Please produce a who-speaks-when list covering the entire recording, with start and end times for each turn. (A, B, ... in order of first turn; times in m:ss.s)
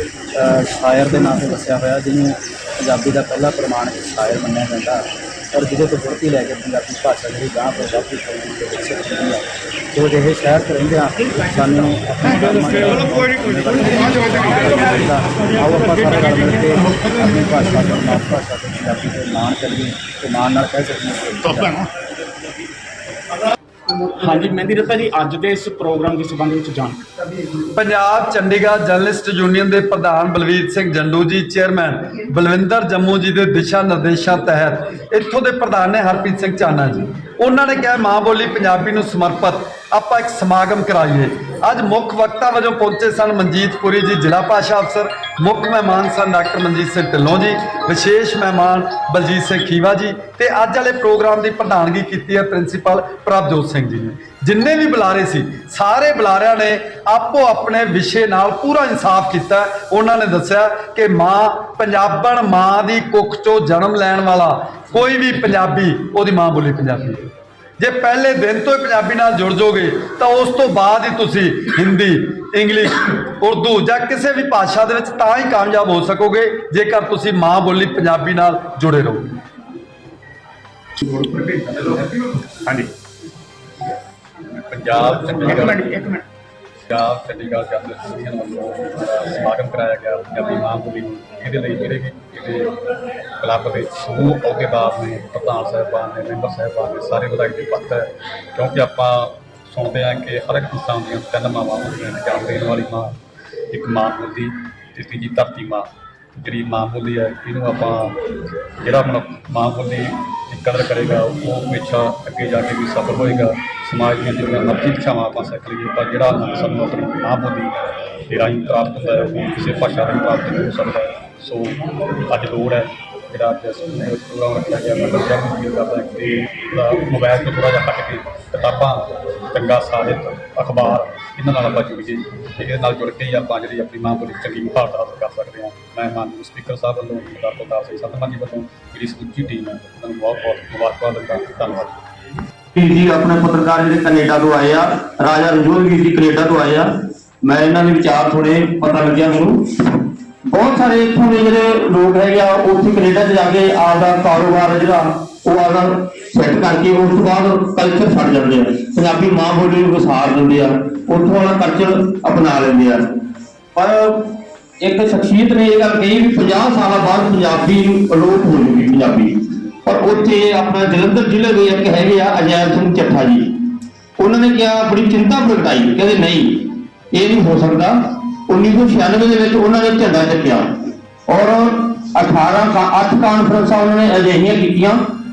0:00.3-0:21.8 A
0:23.9-0:27.0 B
0:27.7-1:19.3 C
1:21.0-1:22.9 B
1:24.7-1:26.0 D
1:25.4-1:26.2 B
1:26.9-1:32.7 D
1:33.4-1:43.1 D
1:43.7-1:48.2 D
1:48.8-1:57.7 D
1:58.3-2:22.0 D
2:22.8-2:26.9 E
2:27.4-2:29.6 E
2:30.5-2:43.0 E
2:43.8-2:44.3 E
2:44.8-2:53.5 E
2:54.2-3:00.7 E
3:01.3-3:05.0 E